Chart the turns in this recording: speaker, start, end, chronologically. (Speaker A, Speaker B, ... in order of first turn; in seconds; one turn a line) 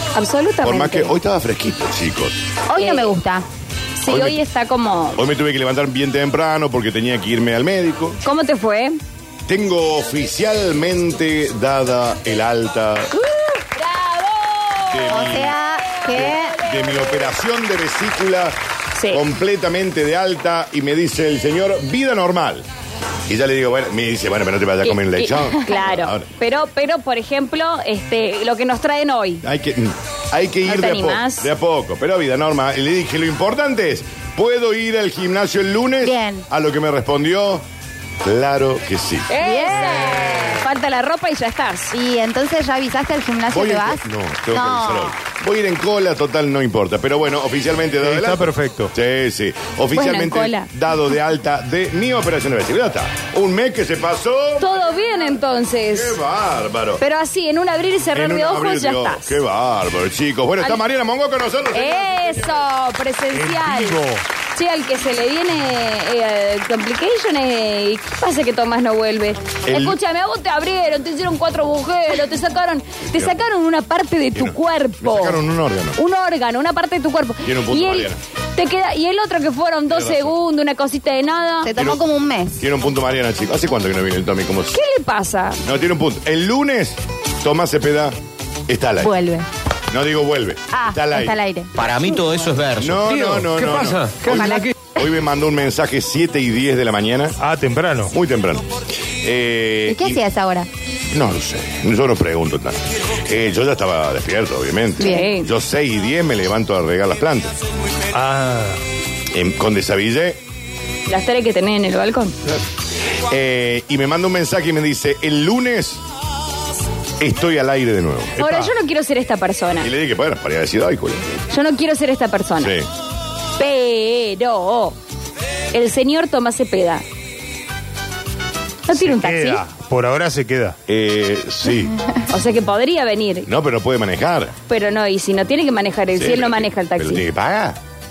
Speaker A: 0.1-1.1
Speaker B: 0.6-2.4
Speaker C: 2.7-3.5
Speaker A: 2.8-3.1
Speaker A: 4.0-5.2
Speaker B: 4.1-4.4
Speaker B: 5.2-8.2
Speaker A: 8.2-9.0
Speaker B: 9.5-13.1
Speaker A: 13.1-17.2
Speaker B: 14.9-15.6
Speaker C: 15.1-16.6
Speaker B: 16.1-18.6
Speaker A: 19.0-19.2
Speaker B: 19.1-22.7
Speaker B: 23.3-26.3
Speaker A: 24.8-29.4
Speaker B: 29.4-37.6
Speaker A: 30.7-31.5
Speaker C: 36.0-36.5
Speaker B: 38.2-39.3
Speaker A: 39.3-42.0
Speaker C: 39.4-40.5
Speaker C: 41.9-45.2
Speaker B: 43.5-54.7
Speaker D: 48.0-48.9
Speaker A: 49.9-50.7
Speaker A: 54.6-56.2
Speaker B: 55.9-57.0
Speaker A: 57.0-59.3
Speaker B: 58.1-62.5
Speaker A: 61.7-64.0
Speaker D: 63.3-64.2
Speaker A: 64.5-75.4
Speaker B: 69.7-70.0
Speaker B: 74.3-76.0
Speaker A: 76.0-81.7
Speaker B: 77.4-78.2
Speaker B: 79.9-80.3
Speaker C: 81.6-82.7
Speaker B: 82.6-84.8
Speaker A: 84.7-85.6
Speaker B: 85.6-88.2
Speaker B: 88.7-89.1
Speaker C: 89.0-89.5
Speaker B: 89.9-91.4
Speaker C: 90.7-91.7
Speaker E: 91.8-94.7
Speaker B: 92.8-97.4
Speaker C: 94.2-94.7
Speaker D: 97.4-98.1
Speaker B: 98.1-100.2
Speaker C: 99.9-100.7
Speaker B: 101.1-107.5
Speaker C: 105.0-105.3
Speaker A: 105.0-105.5
Speaker D: 108.1-108.8
Speaker B: 109.3-110.4
Speaker A: 111.1-112.3
Speaker B: 113.2-116.0
Speaker B: 117.2-118.3
Speaker D: 118.4-118.7
Speaker A: 118.4-119.9
Speaker B: 119.8-121.3
Speaker A: 121.5-122.7
Speaker B: 122.6-122.9
Speaker A: 123.6-125.0
Speaker A: 125.7-127.0
Speaker A: 128.9-129.6
Speaker D: 129.0-130.8
Speaker B: 130.9-131.9
Speaker A: 132.3-133.5
Speaker B: 133.5-134.5
Speaker A: 134.7-137.2
Speaker B: 136.2-137.8